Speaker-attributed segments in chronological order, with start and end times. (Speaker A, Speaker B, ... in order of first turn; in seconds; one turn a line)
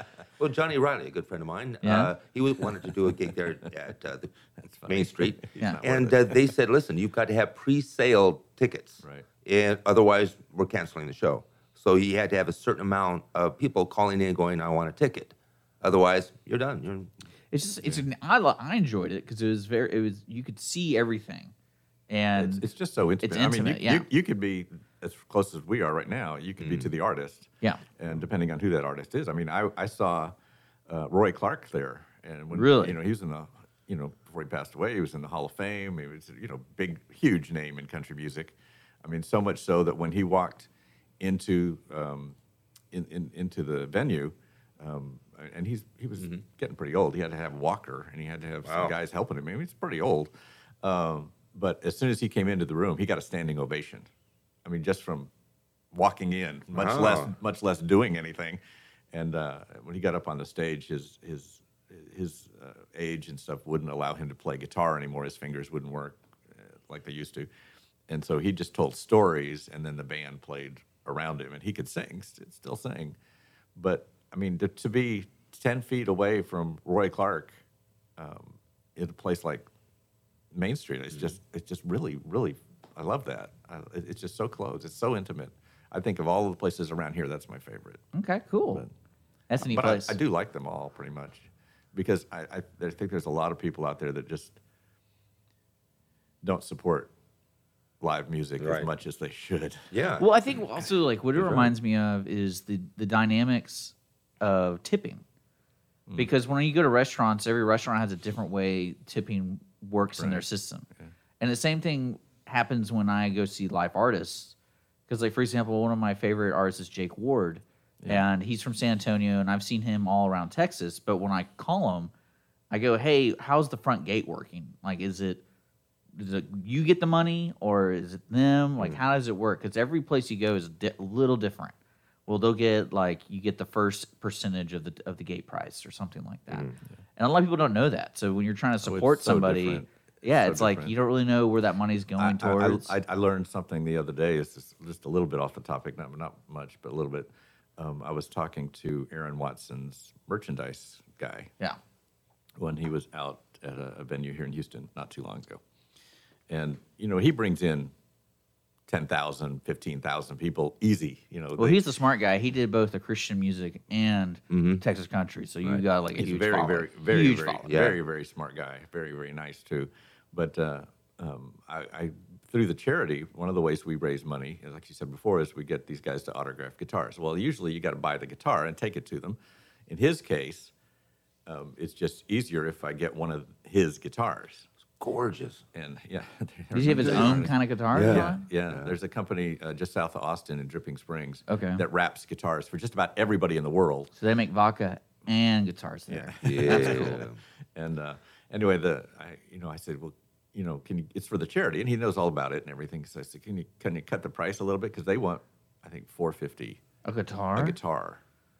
Speaker A: 0.4-4.3
Speaker B: 1.8-2.1
Speaker C: 4.6-6.5
Speaker A: 4.9-17.1
Speaker B: 17.5-21.5
Speaker B: 22.1-22.6
Speaker C: 22.4-30.3
Speaker B: 23.2-24.1
Speaker A: 26.6-26.9
Speaker C: 30.9-40.7
Speaker B: 32.5-33.0
Speaker C: 41.2-42.4
Speaker C: 42.9-54.1
Speaker A: 46.2-46.4
Speaker A: 48.6-49.0
Speaker C: 54.6-55.3
Speaker C: 55.9-58.6
Speaker A: 56.7-57.3
Speaker C: 59.1-67.5
Speaker C: 68.1-73.2
Speaker C: 73.8-77.6
Speaker C: 78.2-79.7
Speaker C: 80.5-88.0
Speaker A: 81.1-81.4
Speaker B: 88.1-88.8
Speaker B: 89.5-90.2
Speaker C: 89.6-94.6
Speaker C: 96.4-97.1
Speaker C: 98.0-99.9
Speaker A: 98.6-98.9
Speaker A: 99.9-100.3
Speaker B: 100.2-105.2
Speaker A: 101.4-101.6
Speaker C: 106.1-106.3
Speaker B: 106.2-110.8
Speaker C: 110.2-110.5
Speaker B: 111.4-114.5
Speaker B: 115.1-122.1
Speaker B: 122.7-125.4
Speaker B: 126.1-131.7
Speaker B: 132.3-142.9
Speaker A: 136.5-136.8
Speaker C: 138.8-140.9
Speaker C: 142.2-151.5
Speaker C: 152.6-155.6
Speaker C: 156.5-157.9
Speaker C: 158.9-161.8
Speaker B: 161.6-167.7
Speaker A: 164.5-164.8
Speaker C: 166.1-180.7
Speaker A: 167.6-168.0
Speaker C: 181.4-184.7
Speaker A: 185.0-185.6
Speaker C: 185.7-194.1
Speaker B: 186.7-188.4
Speaker A: 186.9-188.9
Speaker B: 191.5-191.8
Speaker B: 194.1-197.2
Speaker C: 196.1-206.8
Speaker A: 196.4-197.4
Speaker B: 207.0-207.8
Speaker C: 207.6-208.2